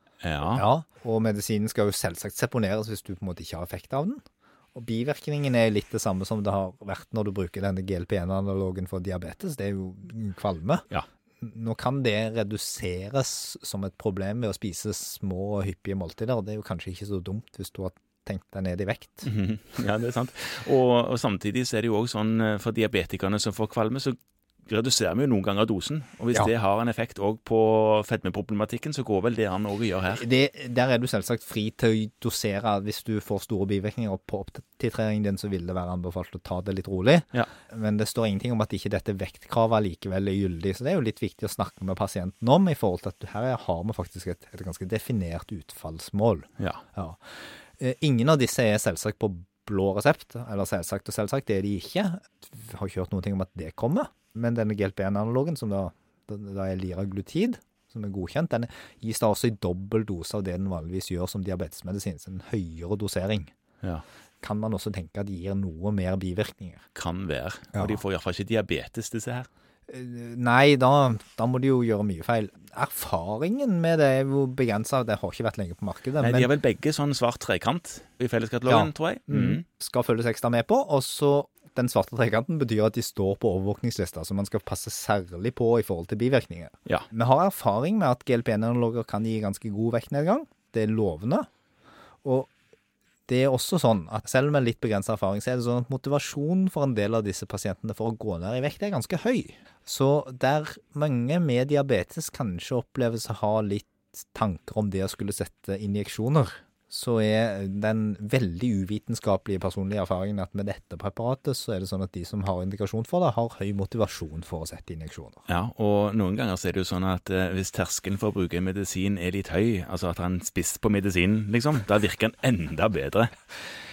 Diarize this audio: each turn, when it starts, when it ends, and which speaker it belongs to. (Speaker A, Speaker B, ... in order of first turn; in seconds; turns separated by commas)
Speaker A: 0.2-0.6, Speaker B: 0.5-4.2, Speaker B: 4.7-10.9, Speaker B: 11.4-19.3, Speaker A: 19.2-30.2, Speaker B: 30.1-47.2, Speaker B: 47.8-63.5, Speaker B: 64.4-66.8, Speaker A: 66.9-69.5, Speaker B: 67.7-68.0, Speaker B: 69.9-76.5, Speaker A: 76.2-79.6, Speaker B: 78.7-91.5, Speaker B: 92.2-92.5, Speaker B: 93.3-115.4, Speaker A: 115.5-123.3